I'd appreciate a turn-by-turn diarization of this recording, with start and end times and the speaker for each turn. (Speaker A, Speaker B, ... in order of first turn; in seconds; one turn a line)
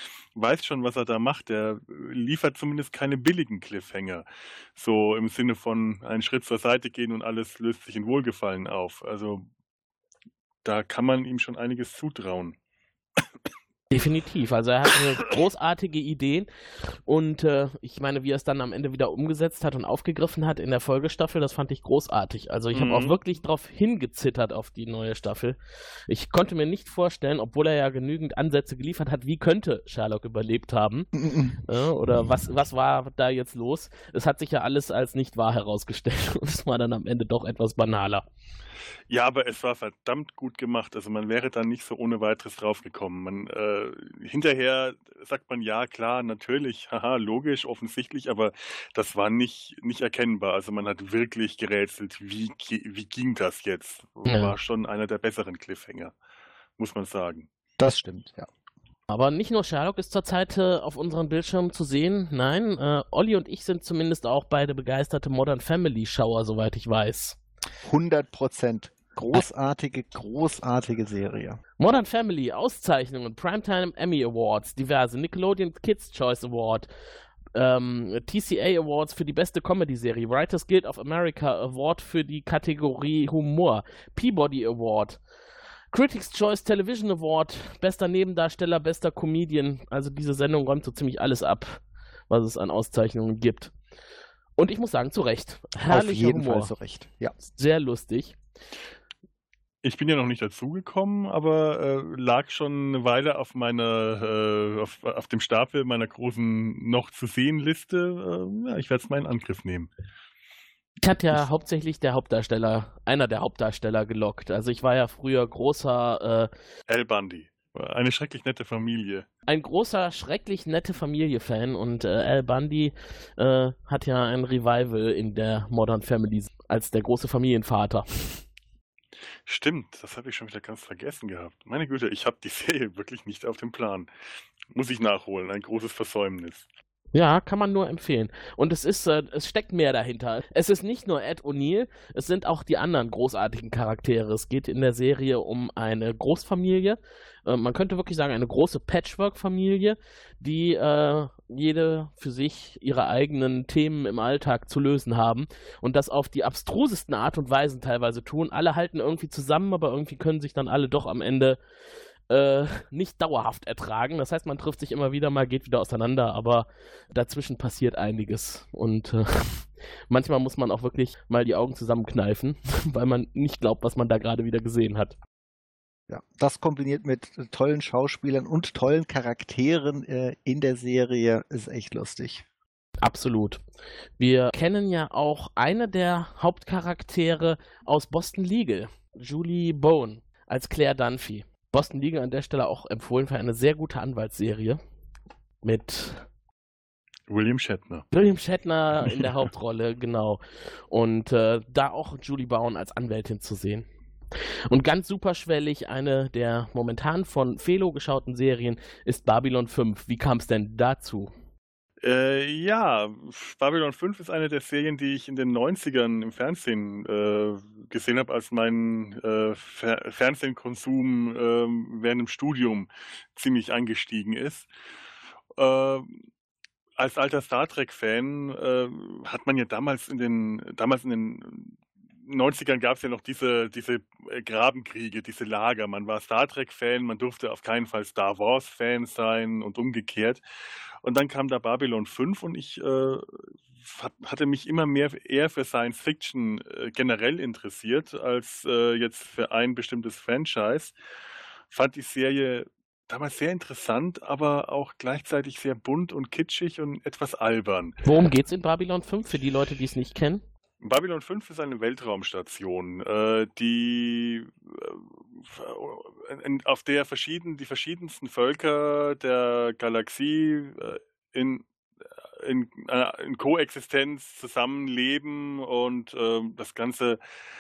Speaker A: 0.3-9.4
Speaker A: 10.6-12.6
Speaker B: 13.9-16.5
Speaker B: 17.1-31.1
Speaker A: 22.7-23.1
Speaker C: 31.2-31.6
Speaker B: 31.6-38.2
Speaker A: 39.1-56.1
Speaker B: 54.2-54.5
Speaker A: 56.8-57.5
Speaker C: 57.8-58.5
Speaker B: 59.1-67.4
Speaker C: 67.8-71.6
Speaker B: 71.8-76.9
Speaker B: 77.5-85.2
Speaker B: 85.9-93.7
Speaker B: 94.6-96.7
Speaker C: 95.9-97.3
Speaker B: 97.5-98.3
Speaker A: 99.8-109.9
Speaker B: 111.0-116.5
Speaker A: 116.9-119.3
Speaker B: 119.5-128.4
Speaker A: 129.4-134.1
Speaker A: 134.7-136.7
Speaker B: 137.1-161.6
Speaker B: 162.3-175.1
Speaker C: 176.1-182.4
Speaker B: 183.0-183.6
Speaker B: 184.2-194.8
Speaker B: 195.6-196.2
Speaker A: 197.3-198.1
Speaker B: 198.1-203.8
Speaker B: 204.7-211.3
Speaker A: 212.0-224.7
Speaker A: 225.6-226.1
Speaker A: 227.0-240.4
Speaker A: 241.0-250.9
Speaker A: 251.7-258.0
Speaker B: 258.0-260.4
Speaker A: 260.8-271.6
Speaker A: 272.4-277.2